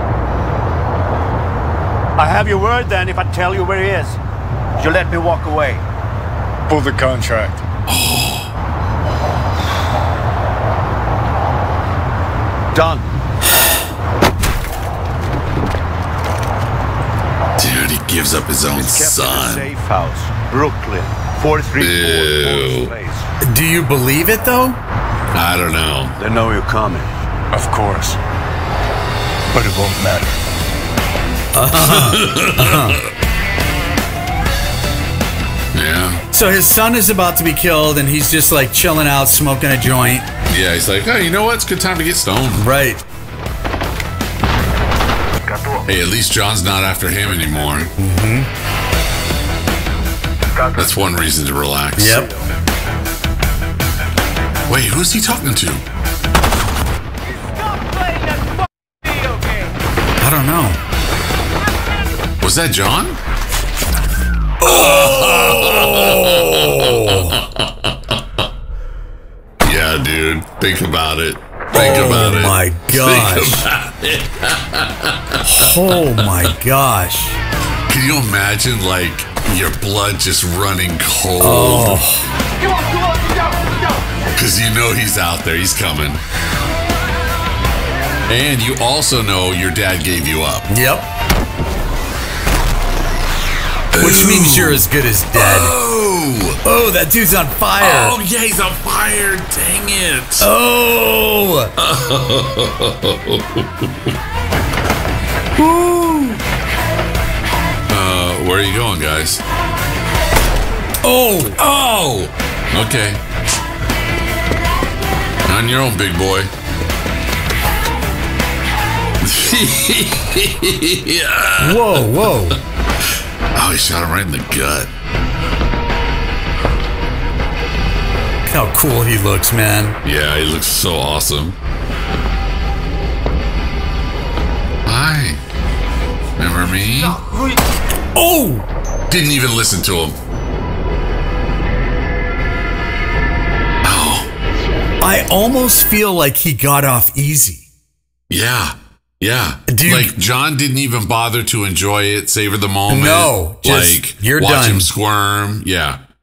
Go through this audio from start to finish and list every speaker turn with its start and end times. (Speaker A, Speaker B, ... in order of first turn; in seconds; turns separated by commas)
Speaker A: 2.2-4.2, Speaker A: 4.8-5.8, Speaker B: 6.7-7.6, Speaker C: 7.9-8.5, Speaker A: 12.7-13.1, Speaker C: 17.6-19.7, Speaker A: 18.7-23.3, Speaker C: 21.8-22.9, Speaker D: 23.4-24.8, Speaker C: 25.3-26.2, Speaker A: 26.2-27.1, Speaker B: 27.5-28.2, Speaker B: 29.5-30.3, Speaker D: 31.5-33.0, Speaker C: 31.8-33.1, Speaker C: 35.7-36.2, Speaker D: 36.3-40.3, Speaker C: 40.5-42.7, Speaker D: 42.6-43.0, Speaker C: 45.9-47.9, Speaker D: 48.0-48.5, Speaker C: 50.7-52.3, Speaker D: 52.0-52.3, Speaker C: 54.7-55.8, Speaker D: 60.2-60.8, Speaker C: 62.4-63.2, Speaker D: 64.6-67.4, Speaker C: 64.6-68.2, Speaker C: 69.6-76.4, Speaker D: 71.7-73.6, Speaker D: 75.4-77.4, Speaker C: 77.9-82.0, Speaker D: 81.4-82.2, Speaker C: 84.2-86.2, Speaker C: 88.3-90.7, Speaker D: 90.7-91.1, Speaker C: 93.9-96.6, Speaker D: 94.0-95.7, Speaker D: 96.6-98.2, Speaker C: 97.8-100.5, Speaker D: 100.4-101.7, Speaker C: 101.8-103.9, Speaker C: 105.6-106.2, Speaker C: 107.9-109.4, Speaker D: 111.0-111.6, Speaker C: 111.6-113.2, Speaker C: 115.5-116.5, Speaker C: 119.2-122.5, Speaker D: 121.6-122.6, Speaker C: 123.5-124.9, Speaker D: 128.4-130.0, Speaker C: 130.0-131.6, Speaker C: 134.8-135.4, Speaker C: 136.4-137.2, Speaker D: 138.1-138.7, Speaker C: 139.1-140.1, Speaker C: 143.8-144.3, Speaker D: 145.0-147.7, Speaker C: 148.3-156.0, Speaker D: 149.7-150.1, Speaker D: 152.9-154.9